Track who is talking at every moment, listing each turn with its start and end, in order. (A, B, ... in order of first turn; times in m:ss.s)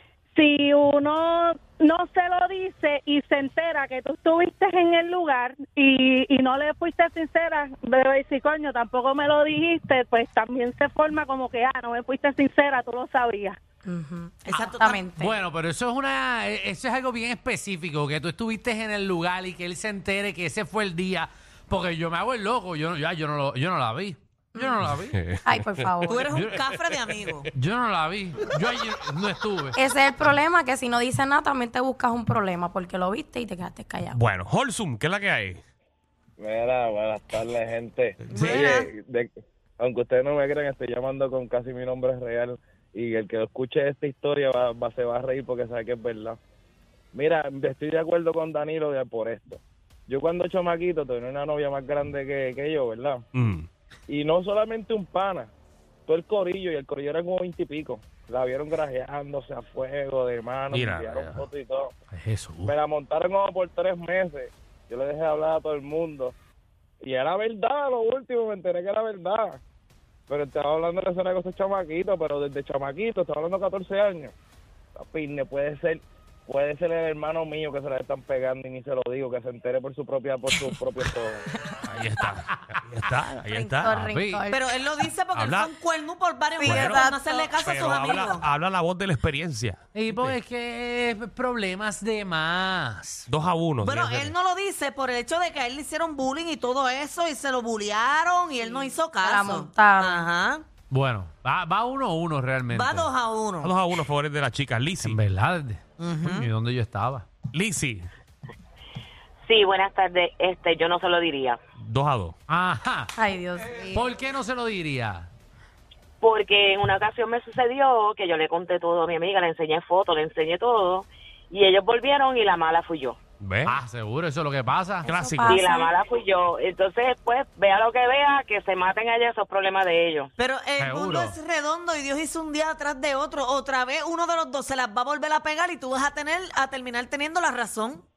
0:00.4-0:13.6 A
0:13.8-0:15.4 B
0:14.5-0:15.1 C
0:15.2-0:25.2 D
0:24.6-0:24.8 B
0:24.8-0:25.9 E
0:25.4-0:26.3 B
0:26.0-0:27.5 C
0:26.3-0:26.7 D
0:27.6-0:29.8 D
0:29.8-0:34.2 B
0:34.1-0:35.6 E
0:36.4-0:39.3 F
0:38.3-0:38.9 C
0:38.4-0:38.7 E
0:39.8-0:46.4 F
0:47.2-0:49.6 F
0:50.1-0:53.2 F
0:53.3-0:53.7 E
0:54.1-0:55.5 F
0:56.1-1:01.9 F
1:00.7-1:01.4 E
1:02.1-1:02.8 D
1:02.7-1:06.3 F
1:07.1-1:09.6 F
1:10.3-1:14.3 F
1:15.0-1:21.4 F
1:21.8-1:24.0 E
1:23.5-1:24.6 B
1:23.9-1:24.5 D
1:24.5-1:28.4 C
1:25.4-1:25.7 E
1:26.6-1:28.2 B
1:26.7-1:27.0 E
1:27.6-1:30.4 E
1:30.0-1:33.3 D
1:33.3-1:34.3 E
1:33.8-1:40.6 C
1:38.7-1:40.3 B
1:40.9-1:43.1 D
1:42.7-1:43.8 C
1:43.6-1:45.2 E
1:45.0-1:47.3 D
1:46.0-1:46.5 C
1:47.5-1:48.1 E
1:49.5-1:51.6 G
1:51.8-1:52.4 E
1:52.5-1:53.1 D
1:53.2-1:54.1 B
1:53.8-1:55.3 D
1:56.2-2:03.2 G
2:03.4-2:03.8 E
2:03.7-2:05.1 D
2:05.0-2:06.0 B
2:05.1-2:05.6 E
2:05.4-2:10.3 G
2:10.4-2:18.0 C
2:10.8-2:11.4 D